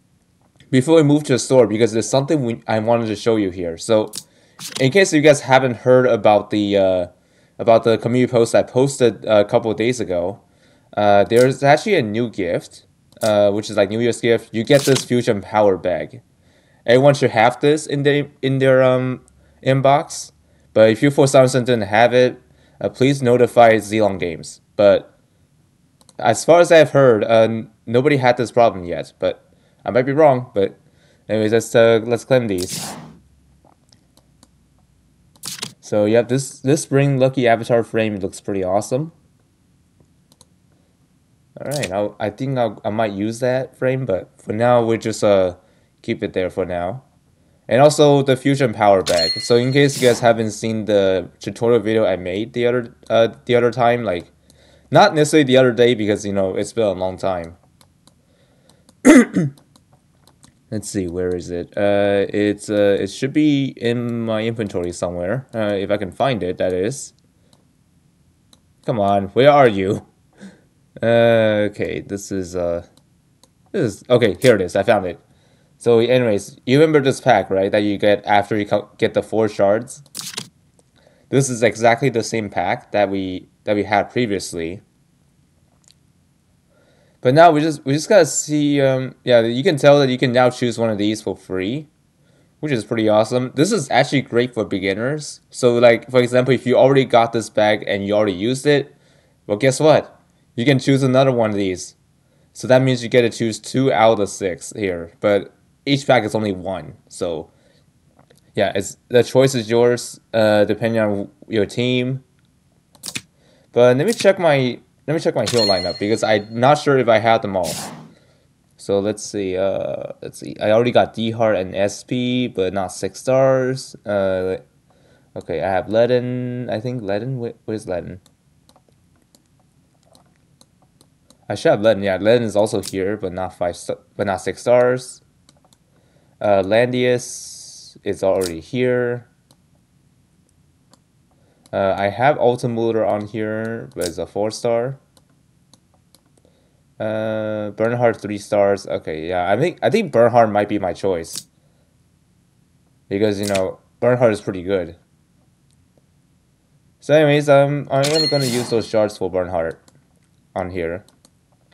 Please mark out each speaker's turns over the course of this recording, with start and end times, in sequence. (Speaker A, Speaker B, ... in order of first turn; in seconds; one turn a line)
Speaker A: 0.7-4.2
Speaker A: 4.8-10.4
Speaker A: 10.9-16.2
Speaker A: 16.9-25.1
Speaker A: 26.2-30.8
Speaker A: 31.3-32.9
Speaker A: 35.8-39.1
Speaker A: 41.6-47.0
Speaker A: 47.7-54.3
Speaker A: 54.9-57.6
Speaker A: 59.0-59.5
Speaker A: 60.7-67.1
Speaker A: 68.8-70.0
Speaker A: 71.0-72.9
Speaker A: 73.7-75.2
Speaker A: 75.8-80.0
Speaker A: 81.3-84.8
Speaker A: 87.2-91.9
Speaker A: 92.6-98.9
Speaker A: 99.5-102.0
Speaker A: 102.5-107.5
Speaker A: 108.5-112.2
Speaker A: 113.7-117.8
Speaker A: 118.8-124.6
Speaker A: 125.3-128.2
Speaker A: 131.5-135.2
Speaker A: 136.4-139.3
Speaker A: 141.7-145.0
Speaker A: 147.0-151.4
Speaker A: 153.1-155.0
Speaker A: 157.0-159.8
Speaker A: 160.5-161.1